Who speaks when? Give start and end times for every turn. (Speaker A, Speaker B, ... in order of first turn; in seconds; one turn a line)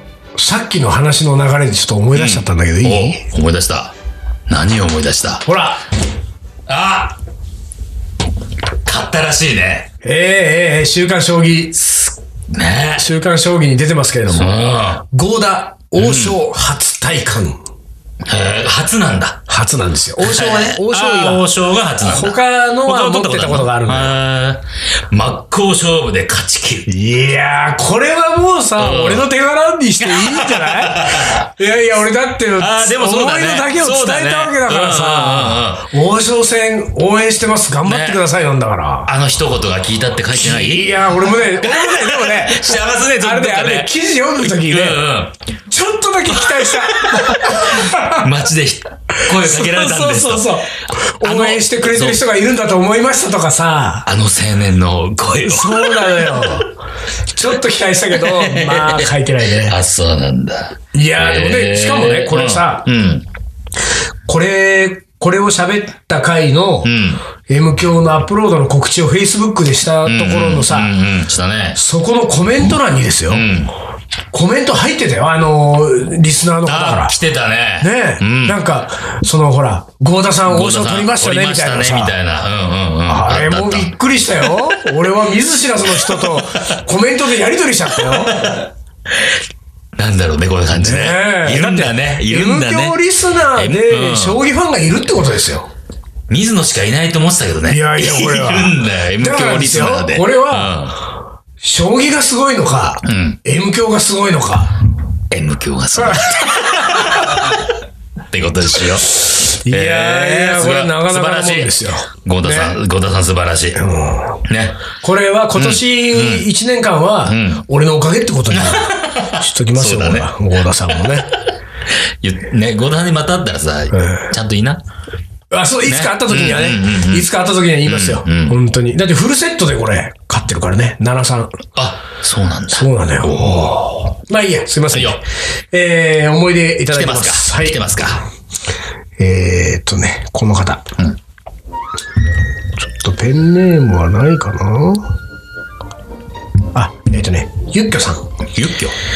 Speaker A: 0.3-3.2
Speaker B: 2.1-4.0
Speaker B: 4.5-5.5
Speaker A: 5.5-5.8
Speaker B: 6.7-7.2
Speaker B: 8.8-9.9
Speaker A: 10.0-11.8
Speaker B: 11.8-13.1
Speaker A: 13.0-17.6
Speaker B: 14.3-15.0
Speaker B: 16.0-16.4
Speaker B: 18.2-19.4
Speaker A: 19.5-21.4
Speaker B: 20.2-26.9
Speaker A: 22.0-24.2
Speaker A: 26.9-39.1
Speaker B: 28.8-29.3
Speaker B: 30.0-31.5
Speaker B: 32.6-35.9
Speaker B: 37.9-38.2
Speaker B: 39.1-45.3
Speaker A: 40.3-45.0
Speaker A: 45.7-48.3
Speaker B: 46.6-50.6
Speaker A: 49.2-54.1
Speaker B: 51.2-52.2
Speaker B: 54.1-56.6
Speaker A: 55.5-56.7
Speaker A: 57.3-59.8
Speaker B: 58.1-63.3
Speaker A: 60.9-62.9
Speaker A: 64.3-70.9
Speaker B: 66.8-67.2
Speaker B: 70.0-71.8
Speaker A: 71.8-73.5
Speaker B: 73.3-73.7
Speaker A: 74.3-77.2
Speaker B: 76.6-78.6
Speaker A: 77.8-82.2
Speaker B: 80.5-83.9
Speaker A: 83.1-88.6
Speaker B: 84.5-84.8
Speaker B: 85.9-86.4
Speaker B: 88.0-89.3
Speaker B: 90.0-93.0
Speaker A: 90.7-95.7
Speaker B: 93.5-94.4
Speaker B: 96.3-101.0
Speaker A: 97.7-100.9
Speaker A: 101.6-104.8
Speaker B: 103.0-103.4
Speaker B: 105.3-107.7
Speaker A: 106.0-107.5
Speaker B: 108.3-113.8
Speaker A: 109.2-112.8
Speaker A: 113.8-114.4
Speaker B: 114.5-114.8
Speaker A: 115.0-121.4
Speaker B: 115.6-116.5
Speaker B: 117.2-117.7
Speaker B: 118.5-120.3
Speaker B: 121.9-124.8
Speaker A: 123.9-124.3
Speaker A: 125.5-131.6
Speaker B: 125.8-127.3
Speaker B: 127.8-128.6
Speaker B: 131.8-134.2
Speaker A: 132.7-138.0
Speaker B: 134.9-135.2
Speaker B: 136.9-138.2
Speaker A: 139.2-140.9
Speaker A: 142.8-145.1
Speaker A: 146.7-148.3
Speaker B: 148.6-149.0